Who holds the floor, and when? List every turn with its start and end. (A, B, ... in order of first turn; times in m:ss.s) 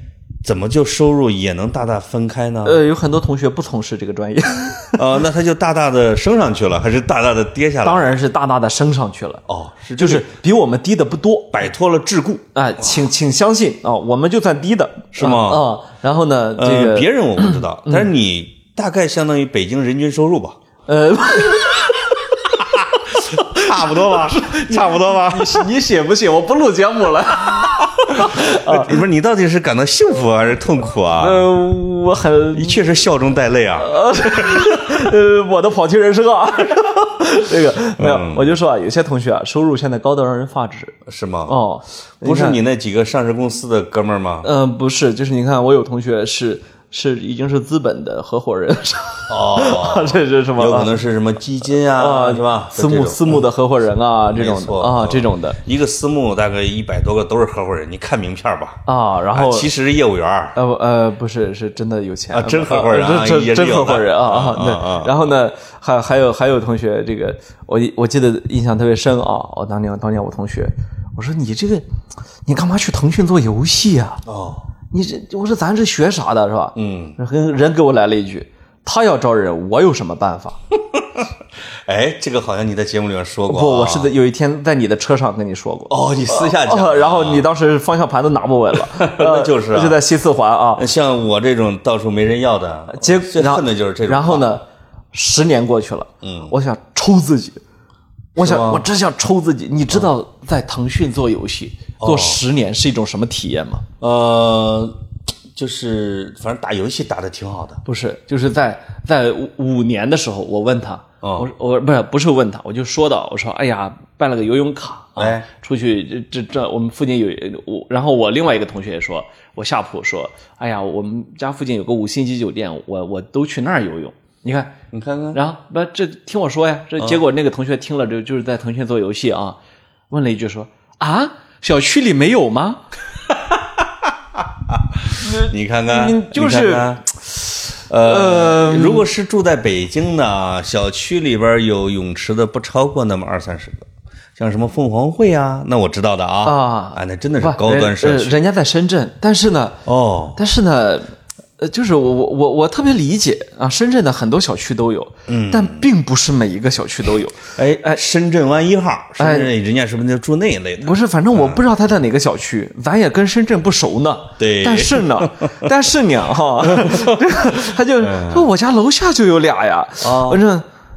0:00.4-0:02.8 A
0:02.6-0:05.0 B
0:05.0-0:08.2 A
0:07.8-0:09.4 B
0:09.5-0:10.3 A
0:10.0-0:11.6 B
0:11.5-0:13.0 A
0:12.6-0:18.1 B
0:15.2-0:15.7 A
0:16.6-0:20.6 A
0:20.9-0:22.3 B
0:23.3-0:29.0 B
0:23.3-0:25.7 A
0:28.2-0:31.5 A
0:31.2-0:32.8 B
0:32.5-0:34.9 A
0:33.8-0:42.6 B
0:38.0-0:38.6 A
0:41.1-0:41.6 A
0:42.2-0:44.5 A
0:44.4-0:51.0 B
0:49.3-0:53.5 A
0:51.9-0:55.6 B
0:54.3-1:00.6 A
0:58.9-0:59.7 B
1:00.6-1:11.8 B
1:02.3-1:05.3 A
1:12.5-1:14.2 B
1:14.3-1:14.7 A
1:14.9-1:20.6 B
1:16.8-1:17.2 A
1:21.0-1:21.2 A
1:21.9-1:24.1 A
1:23.5-1:30.8 B
1:25.9-1:27.5 A
1:28.8-1:30.0 A
1:30.8-1:34.5 A
1:32.9-1:37.6 B
1:36.2-1:36.6 A
1:38.4-1:43.8 B
1:38.4-1:38.9 A
1:42.0-1:42.4 A
1:44.0-1:45.0 A
1:45.6-1:47.8 A
1:47.8-2:04.8 B
1:51.2-1:51.5 A
1:55.2-1:55.5 A
2:04.9-2:05.4 A
2:05.3-2:09.6 B
2:10.1-2:12.8 B
2:14.7-2:17.1 A
2:15.2-2:17.4 B
2:17.9-2:28.4 A
2:18.0-2:19.1 B
2:26.4-2:29.8 B
2:29.8-2:30.4 A
2:30.4-2:38.0 B
2:35.3-2:35.8 A
2:37.6-2:41.6 A
2:39.2-2:39.5 B
2:40.8-2:50.7 B
2:44.4-2:45.5 A
2:46.7-2:47.2 A
2:48.0-2:48.5 A
2:50.0-2:50.4 A